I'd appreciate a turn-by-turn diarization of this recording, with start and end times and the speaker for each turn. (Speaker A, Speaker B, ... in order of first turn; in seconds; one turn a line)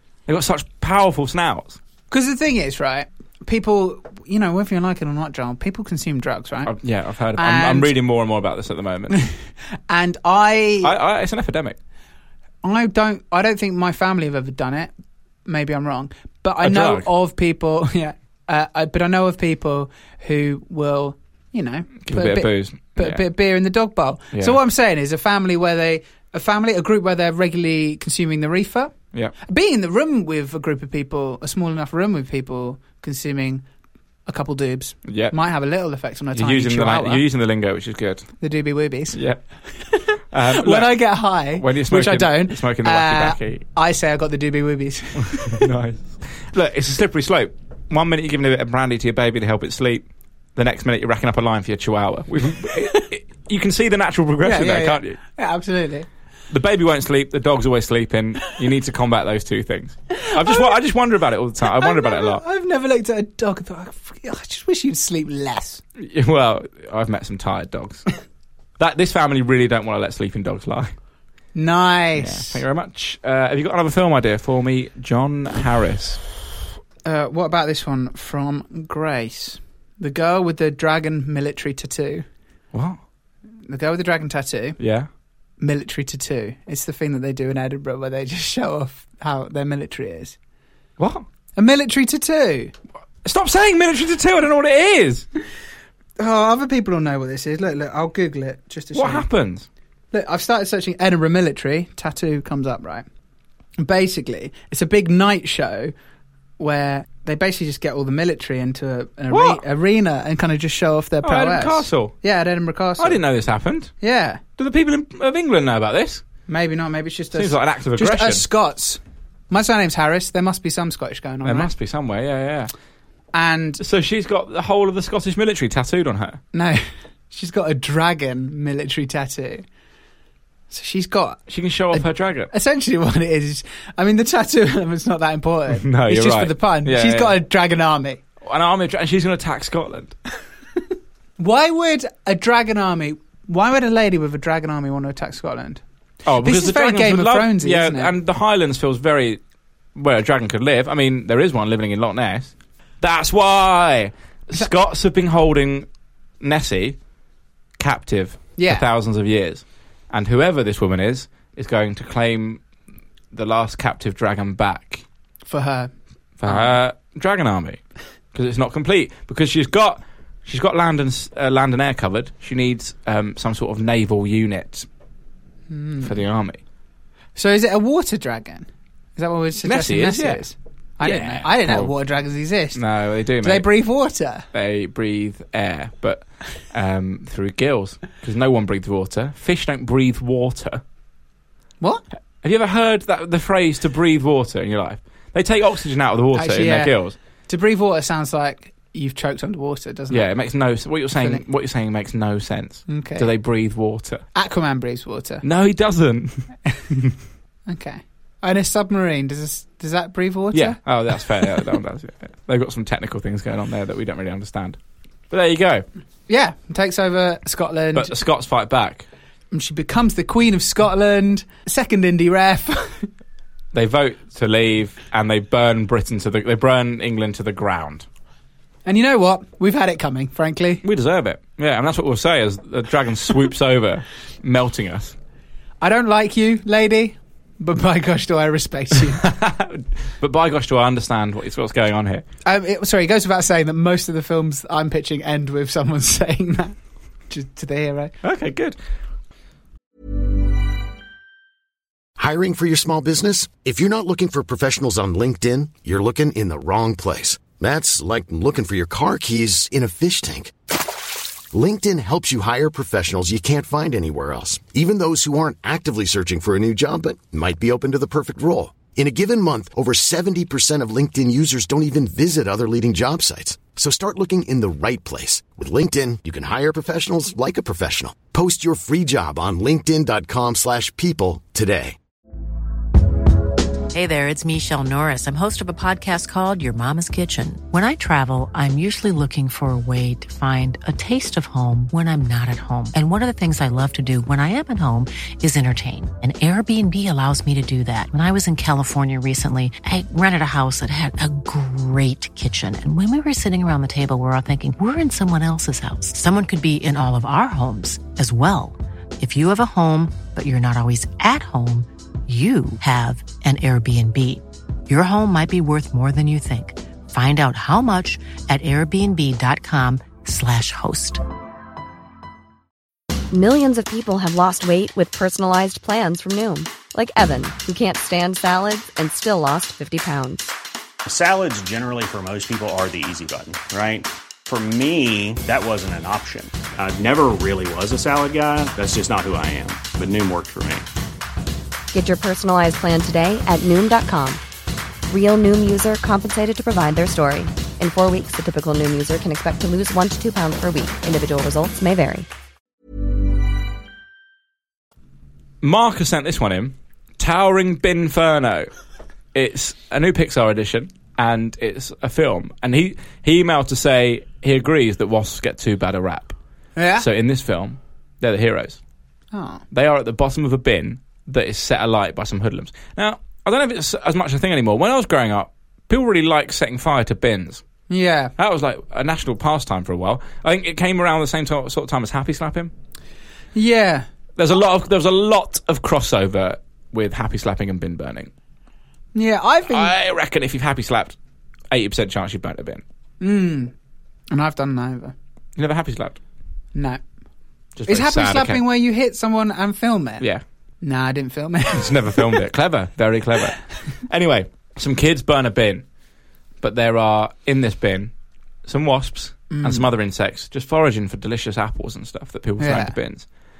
Speaker A: 0.3-1.8
Speaker B: 2.1-6.7
Speaker A: 6.7-9.2
Speaker B: 7.3-7.9
Speaker B: 9.9-10.9
Speaker A: 10.8-11.8
Speaker B: 12.6-14.9
Speaker B: 15.4-28.9
Speaker A: 16.6-17.1
Speaker A: 22.1-23.2
Speaker B: 29.4-33.6
Speaker B: 34.2-37.2
Speaker A: 35.0-35.4
Speaker A: 36.3-38.3
Speaker B: 38.4-39.2
Speaker A: 39.1-39.4
Speaker B: 39.8-45.6
Speaker A: 40.3-43.6
Speaker A: 45.3-55.2
Speaker B: 54.4-56.1
Speaker A: 56.5-62.4
Speaker B: 60.2-60.7
Speaker B: 61.7-65.8
Speaker A: 66.0-68.1
Speaker A: 68.8-70.9
Speaker B: 71.5-72.6
Speaker A: 72.2-76.2
Speaker B: 77.0-82.2
Speaker A: 82.7-83.0
Speaker B: 83.7-84.8
Speaker A: 84.8-85.1
Speaker B: 85.6-90.3
Speaker A: 91.0-91.2
Speaker B: 91.5-92.7
Speaker A: 93.2-95.2
Speaker B: 96.2-99.2
Speaker A: 98.9-99.7
Speaker B: 100.1-103.0
Speaker B: 103.8-105.9
Speaker B: 106.6-113.2
Speaker A: 109.3-109.6
Speaker A: 111.2-112.1
Speaker A: 113.0-113.9
Speaker B: 114.0-114.4
Speaker A: 114.6-116.2
Speaker B: 116.5-121.7
Speaker A: 117.3-118.4
Speaker A: 121.4-122.7
Speaker B: 123.3-123.8
Speaker A: 123.8-126.4
Speaker B: 126.5-129.6
Speaker B: 130.7-138.2
Speaker A: 131.5-132.5
Speaker A: 135.7-137.4
Speaker A: 138.4-140.2
Speaker B: 141.4-145.8
Speaker A: 146.2-149.4
Speaker B: 146.4-148.1
Speaker A: 149.9-155.9
Speaker A: 156.4-157.0
Speaker A: 157.8-162.6
Speaker B: 158.6-158.8
Speaker A: 163.3-165.0
Speaker B: 165.4-165.9
Speaker A: 166.4-167.8
Speaker B: 166.4-166.8
Speaker A: 168.3-174.9
Speaker B: 175.7-176.2
Speaker A: 176.0-176.6
Speaker B: 177.3-182.8
Speaker A: 179.6-180.4
Speaker A: 181.0-181.9
Speaker A: 182.7-183.7
Speaker B: 183.4-184.4
Speaker A: 184.5-190.8
Speaker A: 192.4-197.2
Speaker B: 196.3-196.9
Speaker B: 197.5-200.3
Speaker A: 200.1-204.2
Speaker B: 201.2-201.4
Speaker B: 202.9-203.3
Speaker B: 204.3-205.4
Speaker A: 205.4-207.1
Speaker B: 207.7-210.8
Speaker A: 210.5-214.8
Speaker A: 215.3-215.8
Speaker B: 216.3-218.1
Speaker A: 217.9-219.1
Speaker B: 219.5-223.1
Speaker A: 223.7-228.1
Speaker B: 228.8-230.8
Speaker A: 230.8-235.1
Speaker B: 235.8-239.2
Speaker A: 239.2-242.2
Speaker B: 242.4-246.8
Speaker B: 247.3-248.1
Speaker A: 248.2-248.8
Speaker C: 252.2-260.5
Speaker C: 261.5-282.0
Speaker D: 283.9-321.2
Speaker E: 323.3-330.5
Speaker F: 331.1-340.9
Speaker E: 341.9-344.4
Speaker E: 345.1-352.3
Speaker A: 355.6-358.7
Speaker A: 359.3-366.4
Speaker B: 366.8-367.1
Speaker A: 367.0-368.8
Speaker B: 369.3-369.6
Speaker A: 369.7-377.6
Speaker B: 377.9-378.3
Speaker A: 378.4-382.7
Speaker B: 383.5-384.1
Speaker A: 384.4-388.3
Speaker B: 389.1-389.9
Speaker A: 389.7-391.1
Speaker A: 391.7-392.8
Speaker B: 393.2-393.7
Speaker B: 394.3-395.1
Speaker A: 395.6-396.2
Speaker B: 396.7-397.0
Speaker A: 397.8-398.6
Speaker B: 397.9-400.2
Speaker B: 400.8-402.4
Speaker A: 401.7-405.8
Speaker A: 406.6-408.1
Speaker A: 408.6-413.2
Speaker B: 409.5-409.9
Speaker B: 412.6-412.9